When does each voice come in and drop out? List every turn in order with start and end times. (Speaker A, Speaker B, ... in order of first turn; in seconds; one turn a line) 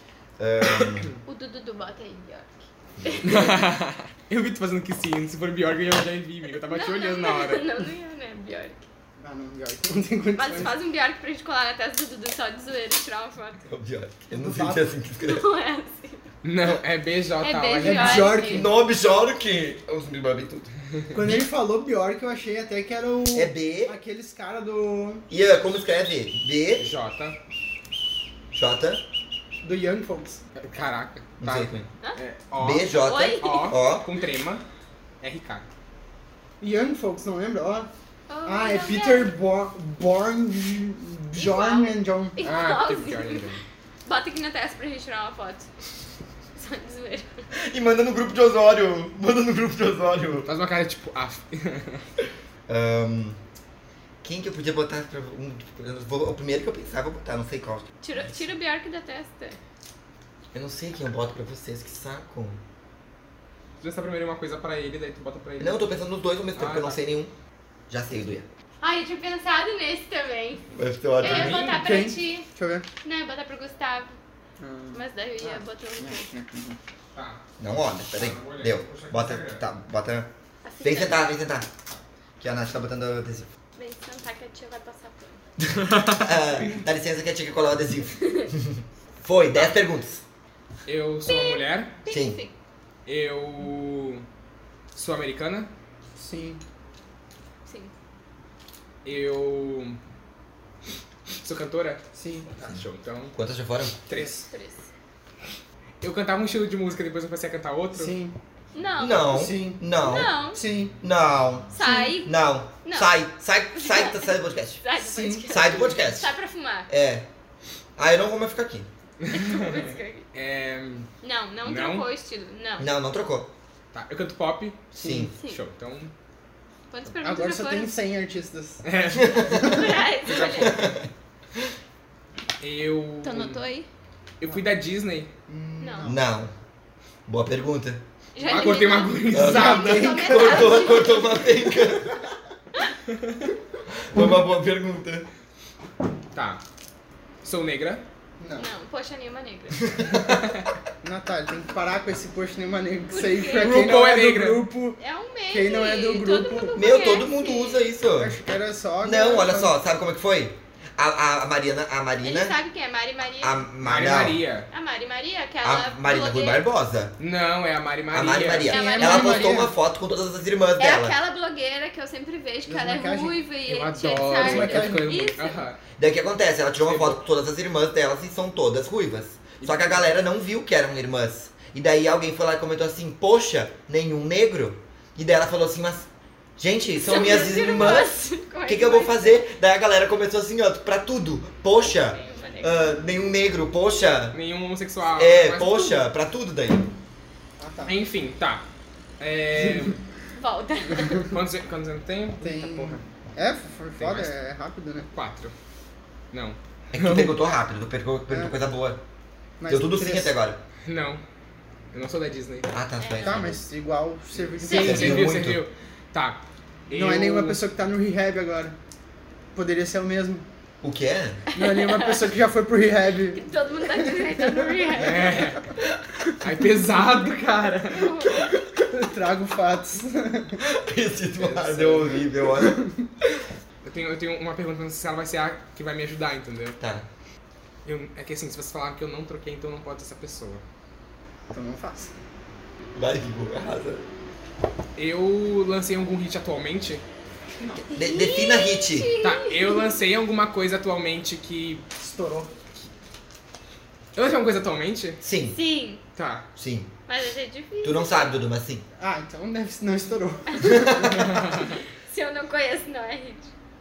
Speaker A: 0.4-1.1
Speaker B: 1.2-3.5
Speaker A: 3.0-3.4
Speaker C: 3.2-7.7
Speaker B: 6.7-8.8
Speaker D: 9.2-10.7
Speaker B: 10.3-13.6
Speaker A: 13.7-15.4
Speaker D: 14.3-14.9
Speaker B: 15.2-16.3
Speaker C: 16.4-18.4
Speaker B: 17.4-18.7
Speaker D: 17.8-18.7
Speaker A: 18.4-20.7
Speaker D: 21.1-25.2
Speaker A: 23.3-23.9
Speaker A: 25.3-26.9
Speaker C: 26.8-27.4
Speaker A: 28.5-29.0
Speaker D: 29.6-30.4
Speaker C: 30.6-34.6
Speaker A: 31.4-31.9
Speaker A: 32.6-34.1
Speaker B: 33.0-33.8
Speaker C: 35.2-35.6
Speaker D: 36.6-37.9
Speaker B: 38.3-39.3
Speaker D: 38.4-42.4
Speaker B: 41.4-43.5
Speaker C: 42.4-43.6
Speaker B: 44.0-45.7
Speaker B: 46.5-47.5
Speaker A: 47.5-50.5
Speaker C: 50.5-52.0
Speaker A: 52.7-53.4
Speaker A: 54.2-58.4
Speaker B: 58.0-59.6
Speaker A: 60.5-62.6
Speaker C: 63.8-65.8
Speaker A: 65.6-67.3
Speaker C: 66.5-67.0
Speaker A: 67.9-68.5
Speaker B: 68.8-70.6
Speaker A: 70.7-71.6
Speaker B: 71.2-72.5
Speaker C: 71.2-71.8
Speaker D: 71.6-72.8
Speaker B: 73.0-74.1
Speaker D: 74.6-76.8
Speaker B: 74.9-76.3
Speaker C: 77.1-77.4
Speaker A: 77.6-80.3
Speaker C: 78.1-79.6
Speaker B: 80.6-81.2
Speaker A: 80.8-81.7
Speaker A: 82.4-83.5
Speaker B: 83.8-85.4
Speaker C: 85.8-86.8
Speaker A: 86.0-90.2
Speaker B: 88.2-88.5
Speaker C: 90.8-91.9
Speaker B: 91.2-92.5
Speaker A: 92.1-92.4
Speaker C: 93.0-94.2
Speaker C: 94.9-95.7
Speaker D: 96.2-96.6
Speaker B: 97.7-97.9
Speaker C: 99.0-100.0
Speaker C: 101.4-102.0
Speaker D: 102.1-102.5
Speaker C: 102.6-103.3
Speaker A: 103.3-104.0
Speaker C: 104.1-104.4
Speaker D: 104.1-104.4
Speaker B: 104.4-104.9
Speaker C: 106.0-108.1
Speaker D: 107.9-108.3
Speaker B: 108.8-109.4
Speaker A: 109.0-110.3
Speaker D: 109.3-109.8
Speaker B: 110.0-110.6
Speaker D: 110.5-110.9
Speaker A: 111.0-111.7
Speaker B: 111.7-112.3
Speaker D: 111.8-112.2
Speaker A: 112.2-114.8
Speaker B: 112.8-113.1
Speaker B: 113.8-116.9
Speaker D: 115.0-115.6
Speaker A: 115.5-116.3
Speaker A: 116.9-117.2
Speaker A: 118.0-118.9
Speaker C: 119.2-121.1
Speaker B: 119.3-120.2
Speaker B: 121.2-122.9
Speaker C: 121.6-122.0
Speaker A: 122.8-123.5
Speaker C: 123.9-126.1
Speaker A: 124.9-125.3
Speaker D: 125.0-125.3
Speaker B: 126.9-127.9
Speaker D: 127.2-128.8
Speaker C: 128.8-130.9
Speaker A: 129.1-129.7
Speaker D: 129.4-129.9
Speaker B: 129.6-130.8
Speaker A: 130.3-131.1
Speaker C: 132.6-133.6
Speaker B: 133.2-133.9
Speaker C: 134.4-135.3
Speaker D: 135.5-136.2
Speaker B: 135.8-136.1
Speaker A: 136.0-136.5
Speaker A: 137.3-138.0
Speaker B: 138.3-141.5
Speaker C: 138.4-140.1
Speaker A: 139.3-142.2
Speaker D: 139.4-141.0
Speaker A: 143.9-145.3
Speaker C: 146.3-146.6
Speaker C: 147.4-148.0
Speaker D: 148.4-148.7
Speaker B: 148.6-150.1
Speaker C: 150.3-150.6
Speaker D: 151.0-155.0
Speaker B: 153.1-153.9
Speaker C: 153.6-154.7
Speaker B: 155.0-157.9
Speaker D: 155.5-156.8
Speaker A: 156.7-158.4
Speaker D: 158.2-159.7
Speaker A: 159.0-162.6
Speaker B: 162.2-163.6
Speaker A: 163.4-164.4
Speaker C: 163.8-164.7
Speaker B: 164.7-166.6
Speaker A: 165.6-167.2
Speaker C: 167.2-168.8
Speaker A: 168.1-171.2
Speaker B: 168.7-169.6
Speaker D: 168.7-169.7
Speaker B: 170.8-175.6
Speaker D: 172.7-173.4
Speaker C: 173.7-175.8
Speaker D: 174.3-175.2
Speaker A: 176.0-194.4
Speaker C: 176.8-177.2
Speaker C: 179.6-180.0
Speaker B: 187.0-189.4
Speaker B: 191.8-192.9
Speaker C: 194.3-196.0
Speaker A: 195.1-196.9
Speaker D: 197.6-198.0
Speaker C: 197.9-198.6
Speaker C: 199.2-200.0
Speaker B: 200.3-201.3
Speaker C: 201.2-203.0
Speaker D: 202.4-205.1
Speaker C: 204.0-204.3
Speaker C: 205.1-205.5
Speaker C: 206.3-207.3
Speaker A: 206.9-209.0
Speaker D: 209.6-210.3
Speaker A: 209.7-210.6
Speaker C: 210.8-211.2
Speaker C: 211.9-212.7
Speaker A: 212.7-213.6
Speaker B: 213.0-213.5
Speaker D: 213.2-215.3
Speaker C: 214.5-217.6
Speaker B: 214.7-215.2
Speaker A: 214.7-215.6
Speaker D: 216.9-218.8
Speaker D: 219.5-220.4
Speaker A: 220.8-221.4
Speaker B: 221.5-222.3
Speaker D: 221.5-224.9
Speaker B: 223.3-225.6
Speaker C: 224.9-225.7
Speaker C: 226.4-228.5
Speaker B: 227.9-228.5
Speaker D: 228.9-230.6
Speaker A: 230.6-233.4
Speaker C: 231.4-232.1
Speaker D: 232.6-233.0
Speaker C: 233.8-236.8
Speaker A: 236.8-237.1
Speaker C: 237.8-240.6
Speaker D: 241.5-242.1
Speaker A: 242.9-244.0
Speaker C: 244.9-247.0
Speaker D: 247.6-247.8
Speaker A: 247.9-249.1
Speaker B: 247.9-249.9
Speaker C: 249.2-251.8
Speaker D: 252.0-252.5
Speaker C: 254.1-255.2
Speaker A: 255.2-255.6
Speaker B: 255.5-256.0
Speaker C: 256.1-256.4
Speaker A: 256.6-256.9
Speaker B: 257.1-258.4
Speaker A: 257.8-258.8
Speaker D: 259.0-261.6
Speaker B: 260.5-263.5
Speaker C: 261.2-261.7